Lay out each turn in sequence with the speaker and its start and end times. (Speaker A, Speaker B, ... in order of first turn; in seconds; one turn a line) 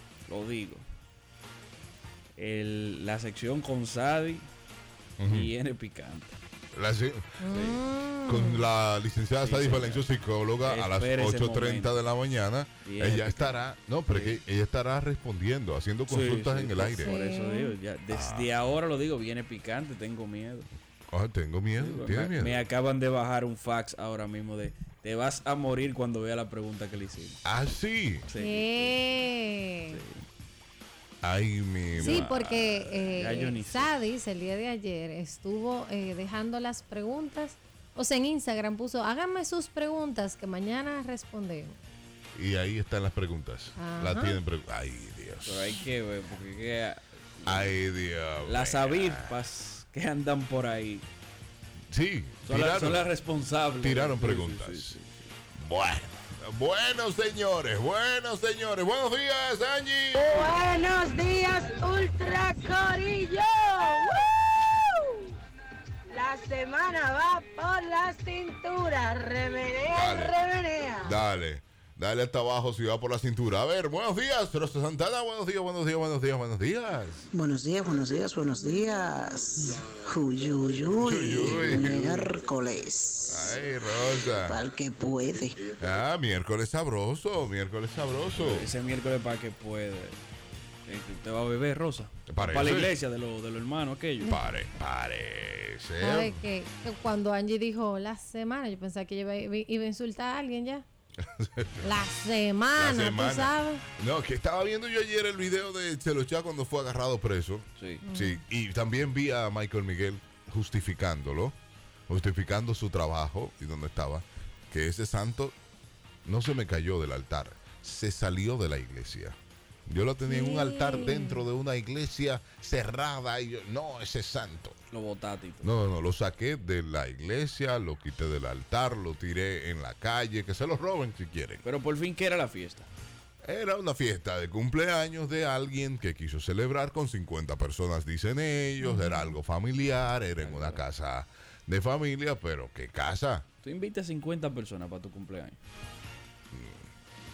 Speaker A: 0.3-0.8
Speaker A: 2.4-4.5
Speaker B: 5.2-5.5
Speaker A: 5.3-6.4
Speaker B: 6.7-7.4
Speaker C: 7.4-8.7
Speaker A: 7.5-7.8
Speaker B: 8.3-17.1
Speaker A: 9.4-10.1
Speaker A: 10.7-12.0
Speaker A: 12.8-14.4
Speaker A: 16.1-20.7
Speaker C: 17.0-17.8
Speaker B: 18.1-18.5
Speaker B: 21.1-22.6
Speaker A: 21.8-27.4
Speaker B: 27.4-28.3
Speaker A: 28.3-29.0
Speaker C: 28.4-30.0
Speaker A: 29.9-30.3
Speaker B: 31.2-32.3
Speaker A: 31.9-33.9
Speaker C: 32.0-41.8
Speaker B: 42.4-45.8
Speaker C: 43.8-44.4
Speaker A: 45.4-47.8
Speaker B: 47.5-49.4
Speaker A: 48.4-51.1
Speaker B: 51.9-53.1
Speaker A: 52.4-55.2
Speaker B: 53.8-55.0
Speaker B: 55.6-60.4
Speaker D: 60.1-65.3
Speaker D: 66.1-71.2
Speaker B: 69.9-70.4
Speaker B: 71.0-77.3
Speaker E: 77.3-83.6
Speaker B: 81.0-82.2
Speaker B: 83.3-84.6
Speaker E: 84.3-85.7
Speaker B: 85.8-88.7
Speaker A: 88.4-90.2
Speaker A: 90.9-94.3
Speaker B: 92.3-92.9
Speaker B: 94.3-96.4
Speaker C: 96.0-100.8
Speaker B: 101.3-101.9
Speaker C: 101.8-103.8
Speaker B: 102.8-111.6
Speaker A: 107.8-108.0
Speaker C: 108.0-108.4
Speaker B: 112.1-115.5
Speaker B: 116.2-124.8
Speaker C: 120.3-121.5
Speaker A: 124.9-125.7
Speaker B: 125.6-131.6
Speaker A: 131.6-132.9
Speaker B: 133.4-143.4
Speaker C: 138.8-139.3
Speaker A: 140.4-140.8
Speaker A: 143.6-145.6
Speaker B: 146.5-146.8